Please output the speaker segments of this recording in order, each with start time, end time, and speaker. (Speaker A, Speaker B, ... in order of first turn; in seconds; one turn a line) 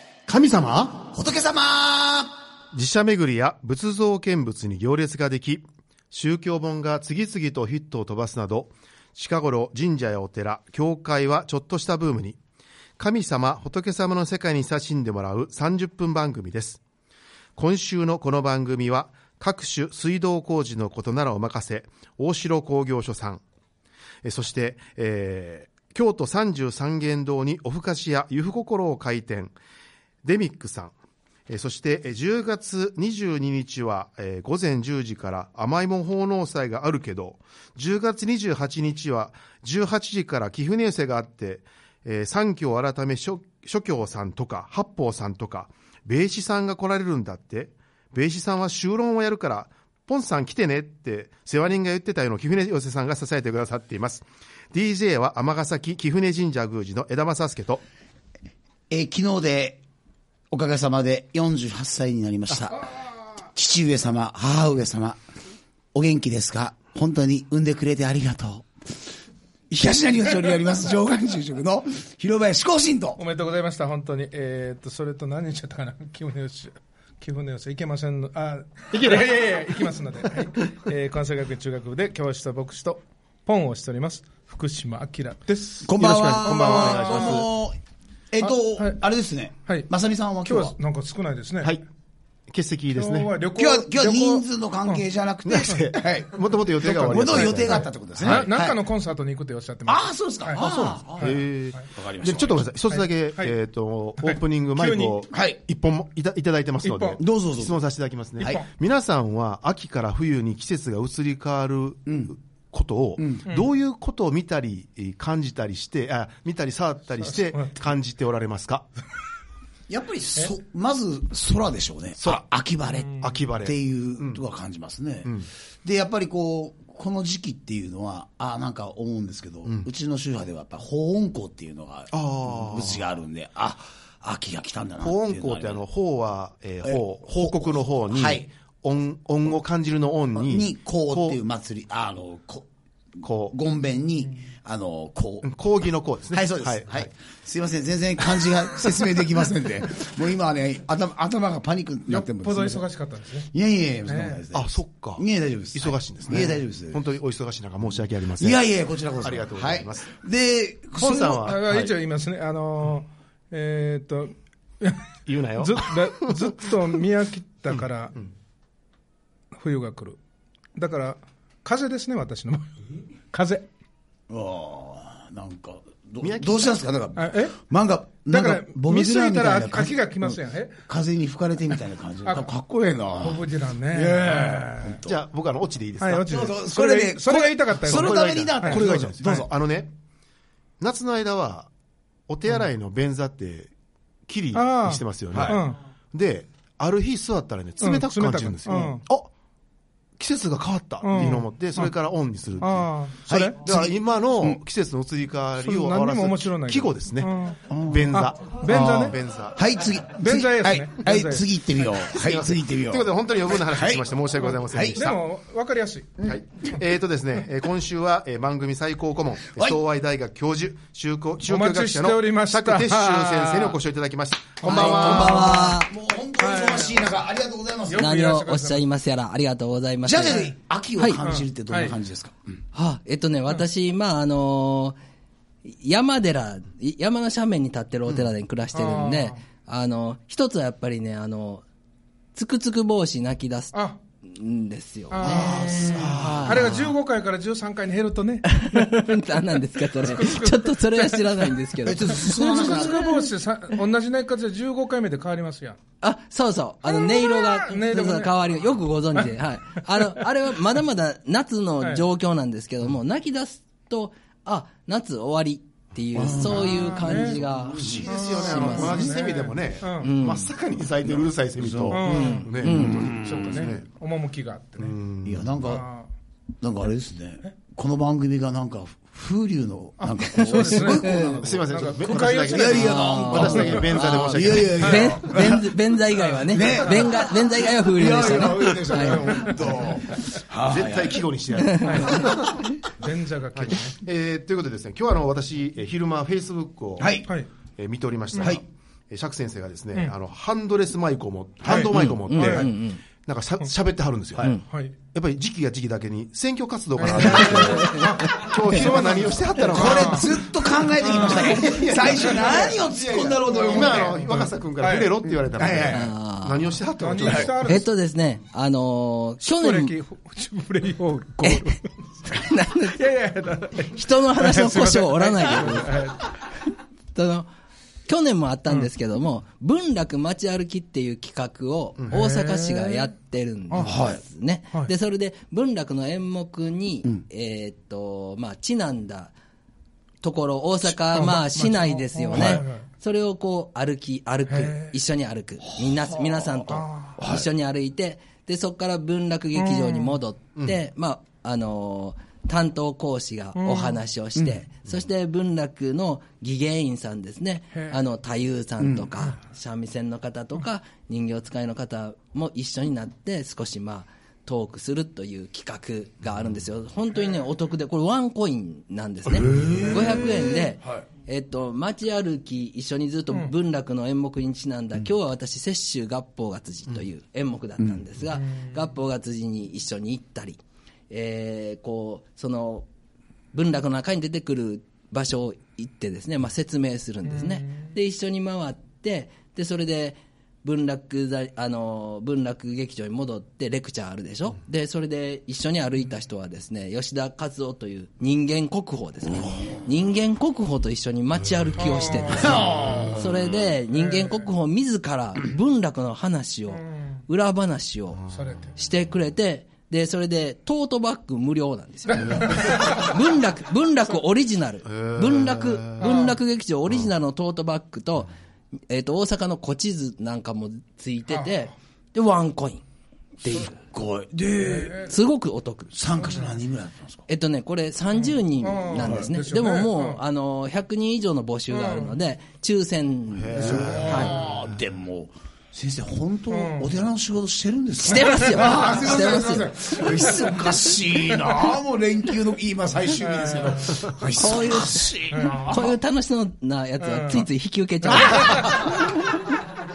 Speaker A: 0.3-1.1
Speaker B: 1.1-2.3
Speaker A: 2.7-12.4
Speaker A: 13.0-16.8
Speaker A: 17.6-23.4
Speaker A: 24.2-29.6
Speaker A: 30.2-30.9
Speaker A: 31.5-57.8
Speaker B: 58.9-59.8
Speaker B: 60.5-62.9
Speaker B: 63.4-65.2
Speaker B: 65.9-68.7
Speaker B: 69.7-73.2
Speaker C: 73.2-87.5
Speaker A: 78.9-79.4
Speaker B: 85.8-87.8
Speaker A: 85.9-87.5
Speaker B: 88.3-90.7
Speaker C: 88.4-89.0
Speaker C: 90.4-91.8
Speaker A: 92.5-93.4
Speaker C: 92.9-95.0
Speaker B: 93.5-98.8
Speaker A: 95.5-98.5
Speaker C: 97.0-101.9
Speaker B: 99.9-102.7
Speaker A: 101.2-118.9
Speaker C: 102.9-103.5
Speaker C: 104.2-105.2
Speaker B: 105.3-105.6
Speaker C: 106.8-107.2
Speaker B: 107.2-107.8
Speaker B: 112.1-112.3
Speaker B: 113.2-113.5
Speaker C: 117.3-117.8
Speaker B: 119.9-135.8
Speaker A: 122.2-122.5
Speaker A: 123.1-124.4
Speaker A: 132.1-133.0
Speaker A: 135.0-141.4
Speaker B: 136.8-138.5
Speaker B: 140.4-142.7
Speaker A: 143.2-143.6
Speaker B: 143.2-145.5
Speaker A: 145.4-147.1
Speaker B: 146.3-152.9
Speaker C: 152.1-153.5
Speaker B: 153.5-157.0
Speaker C: 154.1-154.4
Speaker A: 154.5-158.6
Speaker B: 158.4-161.5
Speaker A: 159.2-160.1
Speaker A: 161.0-161.9
Speaker C: 161.4-168.2
Speaker A: 165.3-166.9
Speaker A: 167.8-168.3
Speaker C: 169.5-170.2
Speaker C: 170.8-173.7
Speaker B: 174.3-185.1
Speaker A: 176.2-176.8
Speaker C: 177.2-177.6
Speaker C: 178.3-180.8
Speaker C: 183.2-185.0
Speaker A: 185.1-186.3
Speaker C: 186.0-189.5
Speaker B: 186.3-189.5
Speaker A: 187.8-189.9
Speaker A: 190.8-191.7
Speaker A: 192.3-193.7
Speaker A: 194.3-199.3
Speaker C: 194.5-195.8
Speaker B: 195.3-195.6
Speaker C: 197.8-199.0
Speaker A: 200.2-209.6
Speaker C: 201.0-201.9
Speaker C: 202.6-203.6
Speaker B: 203.3-204.6
Speaker C: 205.6-209.2
Speaker B: 207.7-208.2
Speaker B: 208.7-215.0
Speaker C: 210.2-211.5
Speaker A: 212.1-215.2
Speaker C: 215.0-216.2
Speaker A: 216.2-225.3
Speaker C: 221.5-223.8
Speaker C: 224.6-225.8
Speaker B: 224.6-228.1
Speaker D: 224.7-225.9
Speaker C: 226.4-227.1
Speaker C: 227.9-228.8
Speaker D: 227.9-231.2
Speaker B: 230.1-232.6
Speaker C: 230.2-230.5
Speaker C: 231.2-232.0
Speaker D: 232.7-235.0
Speaker D: 235.7-241.7
Speaker C: 238.7-239.4
Speaker D: 242.3-246.9
Speaker C: 245.1-249.0
Speaker B: 245.2-246.7
Speaker A: 246.0-246.5
Speaker D: 248.5-253.3
Speaker C: 250.0-255.8
Speaker B: 251.9-253.0
Speaker D: 256.0-269.2
Speaker C: 256.9-258.5
Speaker C: 259.9-260.3
Speaker B: 266.1-268.9
Speaker C: 266.4-267.4
Speaker A: 267.8-273.9
Speaker C: 268.1-270.1
Speaker D: 270.0-270.5
Speaker B: 271.1-273.7
Speaker C: 271.9-275.0
Speaker D: 272.1-273.1
Speaker A: 274.8-275.6
Speaker B: 275.2-275.9
Speaker C: 275.6-276.1
Speaker B: 276.6-285.8
Speaker C: 280.0-283.8
Speaker D: 280.4-281.4
Speaker A: 281.4-285.1
Speaker D: 282.8-289.6
Speaker C: 284.8-285.2
Speaker C: 286.3-287.0
Speaker B: 286.4-291.3
Speaker C: 289.1-289.7
Speaker A: 290.5-292.8
Speaker D: 291.6-292.1
Speaker C: 291.8-292.4
Speaker C: 292.9-294.0
Speaker A: 293.5-304.5
Speaker B: 297.0-297.3
Speaker B: 298.4-298.6
Speaker B: 301.6-302.0
Speaker C: 301.7-302.7
Speaker D: 301.8-303.0
Speaker C: 304.7-304.9
Speaker A: 305.1-310.4
Speaker C: 307.0-312.8
Speaker B: 307.1-307.6
Speaker D: 307.8-308.1
Speaker B: 309.7-314.2
Speaker A: 311.0-317.7
Speaker C: 313.3-315.2
Speaker B: 315.5-316.1
Speaker D: 315.9-316.7
Speaker C: 317.0-317.9
Speaker B: 317.2-317.5
Speaker D: 317.6-319.9
Speaker C: 319.4-321.9
Speaker D: 321.4-323.0
Speaker C: 322.9-326.4
Speaker D: 323.9-326.0
Speaker D: 327.1-327.5
Speaker D: 328.1-339.3
Speaker C: 332.1-333.1
Speaker C: 333.7-334.0
Speaker B: 333.8-334.2
Speaker D: 340.2-382.9
Speaker C: 341.0-342.9
Speaker B: 342.3-342.6
Speaker C: 344.5-344.9
Speaker B: 345.7-347.5
Speaker C: 346.7-347.2
Speaker C: 349.6-350.2
Speaker C: 353.6-354.0
Speaker B: 354.4-354.6
Speaker B: 358.8-359.1
Speaker B: 369.3-371.1
Speaker B: 377.8-378.1
Speaker C: 378.3-378.8
Speaker D: 383.5-408.2
Speaker C: 387.3-387.9
Speaker B: 399.4-399.8
Speaker C: 401.8-403.1
Speaker B: 402.4-403.2
Speaker A: 402.6-403.2
Speaker C: 403.9-404.5
Speaker C: 406.7-407.2
Speaker C: 408.3-408.8
Speaker D: 408.8-418.3
Speaker C: 412.1-413.2
Speaker A: 414.9-416.2
Speaker C: 416.0-416.4
Speaker D: 418.9-422.8
Speaker C: 421.3-421.6
Speaker D: 423.4-423.8
Speaker B: 423.4-425.2
Speaker C: 424.6-425.1
Speaker D: 425.0-426.0
Speaker B: 425.9-427.3
Speaker C: 426.2-426.5
Speaker D: 427.3-434.4
Speaker C: 428.1-430.2
Speaker B: 429.0-429.3
Speaker C: 431.7-432.2
Speaker A: 433.3-434.5
Speaker B: 433.5-446.0
Speaker C: 433.9-434.4
Speaker C: 436.5-436.9
Speaker D: 438.0-440.7
Speaker C: 440.3-440.7
Speaker C: 441.3-441.8
Speaker C: 443.2-444.1
Speaker D: 444.3-445.1
Speaker C: 445.3-445.8
Speaker D: 445.7-449.4
Speaker C: 447.0-447.5
Speaker C: 448.1-448.9
Speaker B: 448.1-448.9